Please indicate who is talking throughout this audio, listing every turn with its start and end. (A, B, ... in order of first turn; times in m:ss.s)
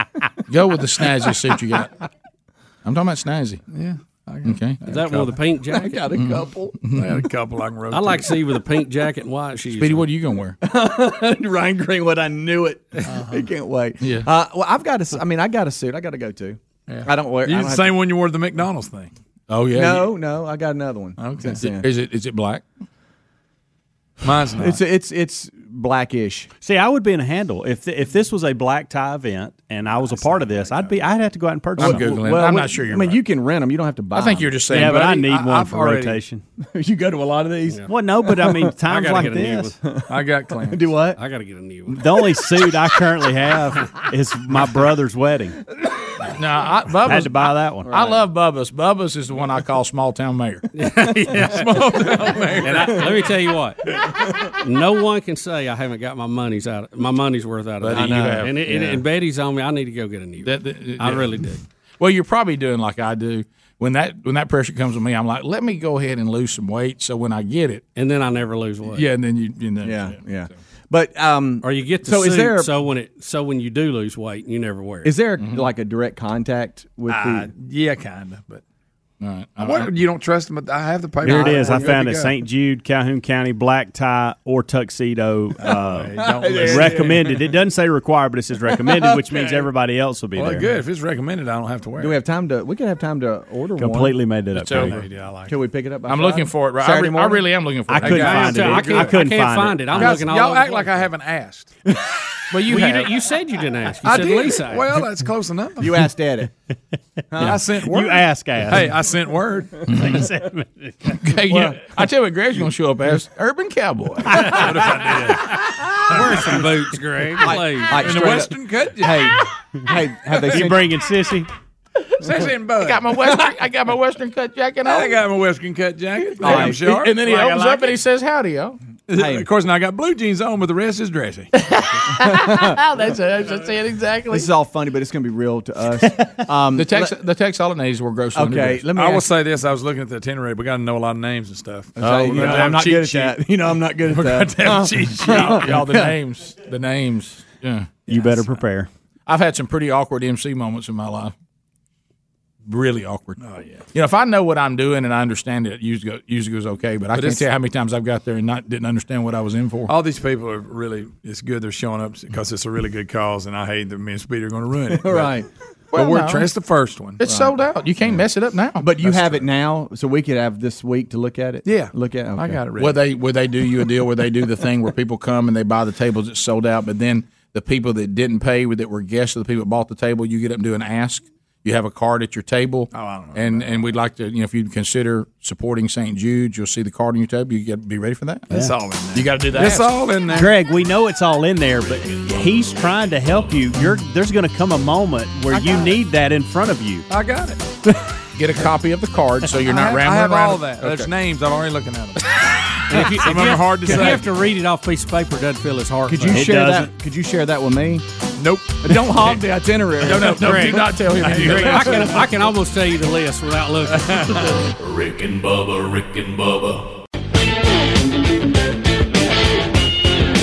0:00.5-0:01.9 A
0:02.8-0:03.6 A
0:03.7-0:05.4 B
0:04.4-0:04.9 A
0:04.8-0:06.2 C
0:05.7-0:06.7 D
0:06.1-0:07.2 A
0:06.9-0:08.4 B
0:07.9-0:10.0 C
0:09.8-0:10.6 A
0:10.6-0:18.0 D
0:13.0-0:13.5 B
0:14.0-0:14.3 A
0:16.9-0:19.1 B
0:19.5-0:20.1 A
0:19.7-0:21.9 D
0:21.2-0:21.6 B
0:21.6-0:22.6 A
0:24.2-0:24.8 B
0:24.5-0:26.5 D
0:26.6-0:32.1 E
0:30.0-0:31.0 B
0:31.8-0:33.2 A
0:31.8-0:34.9 D
0:34.1-0:35.0 A
0:34.7-0:36.4 E
0:34.7-0:36.2 B
0:36.6-0:38.7 D
0:37.9-0:39.7 E
0:38.9-0:39.7 C
0:39.8-0:40.1 D
0:40.1-0:40.9 B
0:40.7-0:41.2 D
0:41.2-0:42.9 C
0:41.9-0:45.6 E
0:46.3-0:50.7 A
0:47.0-0:47.9 E
0:47.9-0:48.2 D
0:50.8-0:54.0 C
0:51.3-0:53.1 B
0:52.6-0:53.1 D
0:54.5-1:01.6 C
0:57.8-0:58.8 A
0:57.9-0:59.0 D
1:00.4-1:01.3 A
1:02.0-1:07.8 A
1:08.0-1:09.1 C
1:08.9-1:10.2 A
1:09.8-1:12.7 D
1:11.6-1:15.2 C
1:15.0-1:17.5 D
1:15.4-1:15.6 A
1:17.1-1:18.6 B
1:19.2-1:19.9 A
1:19.6-1:22.3 B
1:21.2-1:30.7 E
1:21.2-1:22.0 D
1:25.6-1:27.4 B
1:25.7-1:27.4 D
1:28.7-1:29.6 D
1:30.3-1:32.2 B
1:32.0-1:34.2 D
1:33.8-1:34.9 E
1:34.6-1:35.0 A
1:34.7-1:37.5 D
1:34.7-1:35.6 B
1:36.1-1:38.6 A
1:37.9-1:40.2 E
1:38.0-1:39.2 B
1:38.0-1:40.9 C
1:39.9-1:41.8 B
1:42.5-1:43.1 A
1:42.6-1:45.0 C
1:42.7-1:43.1 B
1:44.0-1:46.0 B
1:45.8-1:46.5 D
1:47.3-1:47.7 D
1:47.4-1:49.9 B
1:47.4-1:49.0 E
1:49.9-1:50.2 A
1:49.9-1:51.2 E
1:51.2-1:54.9 A
1:51.5-1:51.8 D
1:54.4-1:55.5 B
1:56.1-1:58.3 C
1:56.1-1:56.5 D
1:57.4-2:01.0 D
1:57.9-1:59.4 B
2:00.3-2:00.8 B
2:00.5-2:01.5 E
2:02.2-2:03.3 B
2:02.8-2:05.2 A
2:04.8-2:07.9 B
2:06.4-2:06.8 D
2:06.4-2:08.8 A
2:09.1-2:11.5 B
2:09.1-2:09.5 D
2:12.1-2:12.8 D
2:12.2-2:14.5 A
2:14.3-2:17.1 D
2:16.7-2:18.8 A
2:18.3-2:19.3 D
2:18.9-2:23.4 B
2:22.0-2:26.1 D
2:22.0-2:23.0 A
2:24.0-2:25.7 B
2:25.2-2:28.0 A
2:28.1-2:28.9 E
2:29.2-2:31.3 A
2:32.6-2:39.9 A
2:33.4-2:33.9 B
2:37.1-2:37.5 B
2:39.9-2:45.4 B
2:44.9-2:45.5 D
2:45.9-2:46.5 A
2:45.9-2:47.2 B
2:47.2-2:48.9 A
2:47.2-2:47.5 D
2:48.8-2:52.6 D
2:49.0-2:49.4 B
2:51.6-2:53.0 B
2:52.8-3:08.4 A
3:02.9-3:03.8 B
3:08.5-3:10.5 B
3:08.5-3:08.8 E
3:09.1-3:10.0 A
3:10.3-3:17.0 E
3:17.1-3:17.6 B
3:18.4-3:21.1 A
3:19.6-3:22.2 B
3:22.9-3:26.6 C
3:22.9-3:24.3 B
3:23.5-3:24.2 D
3:26.1-3:28.0 D
3:26.3-3:26.9 E
3:28.4-3:29.4 B
3:28.8-3:30.6 D
3:30.0-3:32.2 A
3:30.1-3:32.2 B
3:30.2-3:34.6 C
3:31.5-3:32.2 D
3:34.0-3:34.4 B
3:34.8-3:36.9 F